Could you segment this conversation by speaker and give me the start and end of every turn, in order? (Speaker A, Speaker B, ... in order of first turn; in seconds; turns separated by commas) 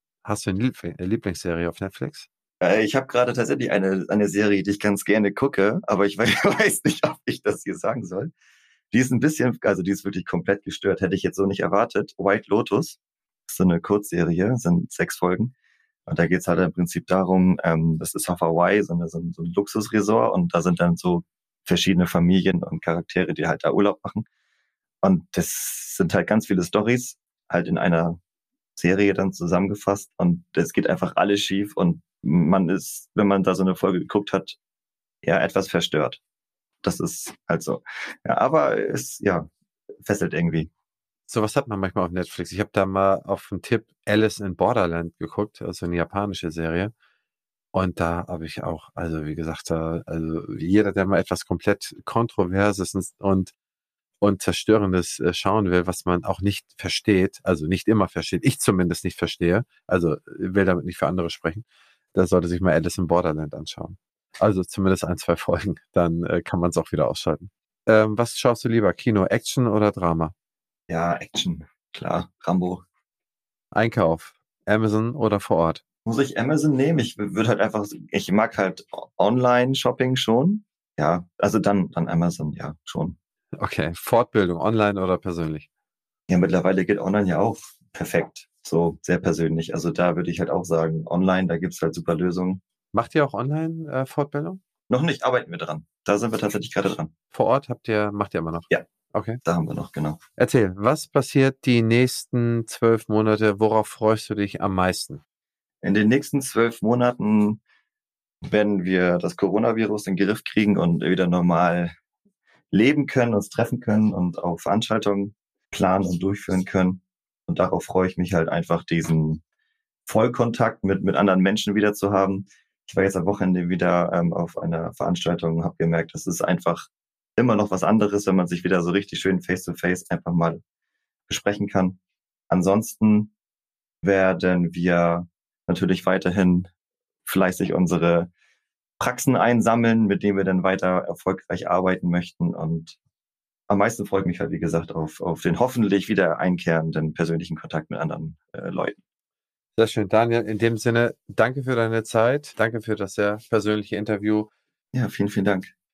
Speaker A: 0.2-2.3, Speaker B: 2.6-8.3, Speaker B: 8.9-15.5, Speaker B: 16.1-24.3, Speaker B: 25.0-28.2, Speaker B: 28.8-34.6, Speaker B: 35.2-36.2, Speaker B: 36.8-39.5, Speaker B: 40.0-40.7, Speaker A: 41.3-46.9, Speaker A: 47.7-53.5, Speaker A: 54.2-70.3, Speaker B: 70.9-72.8, Speaker A: 73.7-75.8, Speaker B: 76.1-83.2, Speaker A: 83.6-85.7, Speaker B: 86.3-92.6, Speaker A: 92.9-94.6, Speaker B: 94.9-97.1, Speaker A: 97.3-99.4, Speaker B: 99.4-100.2, Speaker A: 100.4-105.2, Speaker B: 105.8-107.6, Speaker B: 108.5-111.9, Speaker B: 112.7-119.4, Speaker B: 120.1-130.6, Speaker B: 131.3-132.0, Speaker B: 132.5-133.3, Speaker B: 134.0-136.7, Speaker B: 137.3-138.3, Speaker B: 139.0-143.0, Speaker B: 143.7-149.0, Speaker A: 149.8-154.5, Speaker B: 154.9-155.7